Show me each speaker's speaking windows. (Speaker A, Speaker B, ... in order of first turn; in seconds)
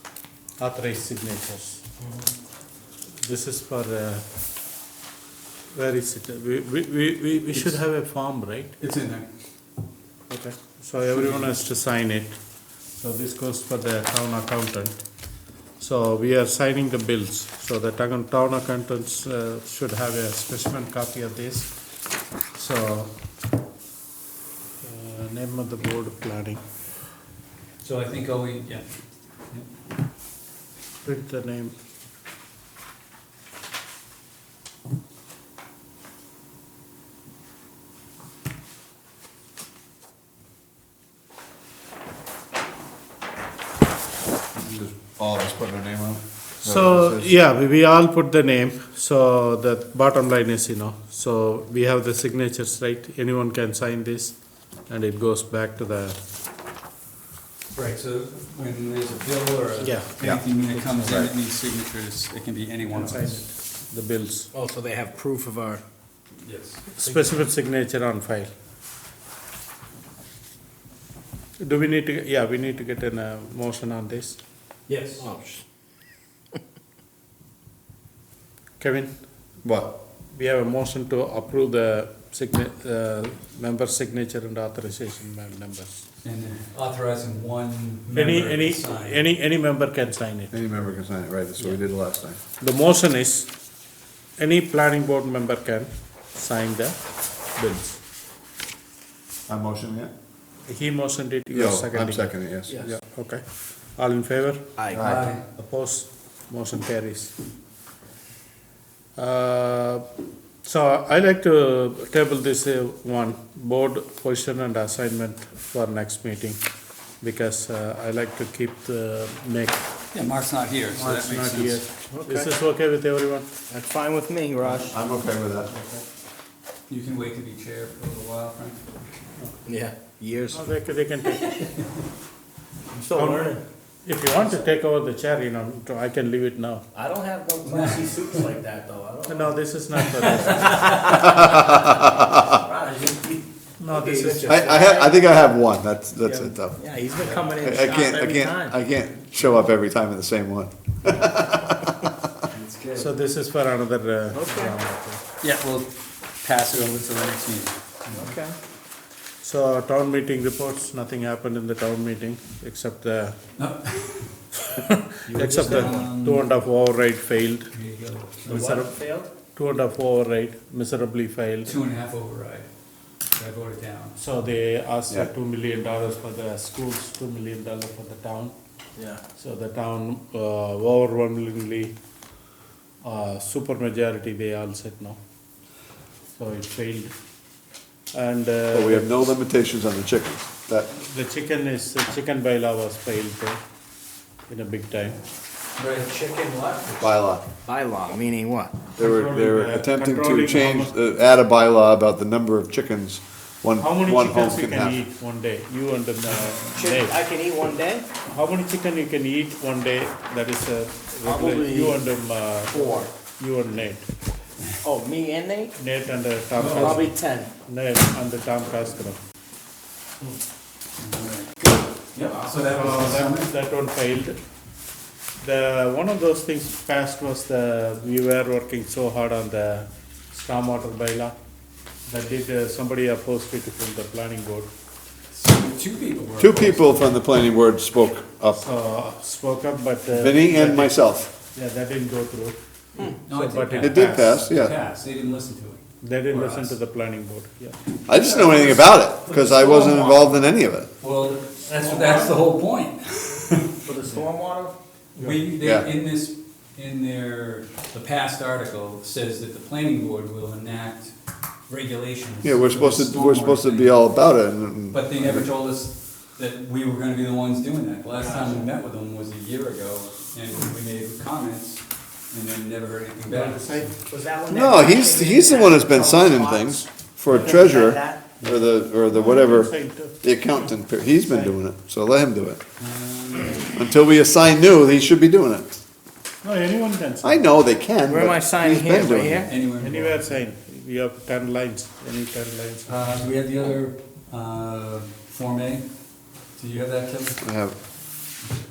Speaker A: 0.6-1.8, 3.2-4.3, 5.7-8.8, 10.3-12.4, 13.0-15.0, 15.8-21.7, 22.5-23.1, 24.8-26.6, 31.0-31.8, 46.6-54.4, 54.9-56.2, 59.8-60.2, 62.9-64.5, 67.0-68.5, 71.6-74.4, 78.8-79.2, 80.3-86.0, 88.1-90.5, 92.6-93.5, 94.4-97.0, 100.7-102.3, 103.0-103.5, 104.0-104.8, 105.5-107.3, 109.2-110.1, 110.6-116.6, 117.2-119.9, 120.9-123.5, 130.5-131.7, 133.1-136.8, 139.3-141.1, 143.8-144.7, 153.0-154.9, 159.4-163.4, 164.7-167.7, 168.5-168.9, 169.6-171.8, 174.2-178.5, 179.4-181.9, 183.0-185.2, 186.4-187.1, 188.1-189.3, 190.9-193.6, 194.5-195.2, 199.0-200.9, 203.8-207.2, 208.3-214.1, 215.8-217.1, 217.7-219.2, 222.6-224.4, 225.4-231.4, 232.1-234.7, 238.6-242.6, 243.3-244.4, 246.0-247.8, 255.2-255.4, 273.3-274.0, 279.1-280.3, 286.4-287.5, 289.8-293.0
Speaker B: 8.8-9.3, 11.1-11.6, 27.8-28.9, 57.7-63.4, 66.4-66.9, 74.9-75.2, 86.2-89.2, 104.9-105.4, 120.1-121.9, 126.9-128.9, 137.6-138.4, 147.2-147.4, 152.5-153.1, 155.4-158.3, 163.6-164.4, 165.3-166.5, 167.7-168.7, 171.7-172.7, 173.3-174.2, 195.8-196.3, 216.6-217.0, 221.0-223.5, 235.3-237.2, 243.2-246.8, 248.1-250.2, 251.0-253.8, 255.2-261.1, 261.7-264.1, 264.9-274.0, 282.8-283.8, 289.3-290.3, 292.9-295.9, 296.6-297.4
Speaker C: 44.5-47.3, 79.6-79.9, 90.5-92.4, 99.5-100.1, 101.5-103.0, 104.9-105.3, 124.9-125.8, 141.3-142.3, 144.5-146.8, 147.6-152.1, 188.7-190.9, 197.0-197.4, 199.0-205.0, 236.4-238.6, 240.1-241.3, 243.8-244.8, 248.1-250.9, 255.6-255.9, 262.4-265.5, 274.5-282.6, 283.7-285.8, 287.2-289.5, 297.4-297.8
Speaker D: 64.5-65.8, 67.0-67.3, 74.9-75.6, 122.1-122.5, 123.7-125.0, 129.7-130.7, 132.9-133.6, 134.4-134.6, 136.9-145.2, 146.2-148.8, 154.3-155.2, 158.1-158.6, 165.3-166.1, 168.5-169.3, 179.0-179.2, 196.1-196.9, 197.7-198.8, 206.7-208.1, 211.2-212.1, 212.7-213.1, 214.8-215.7, 216.6-217.5, 249.3-250.3, 253.8-254.8, 268.1-268.7, 274.1-278.3, 288.1-289.5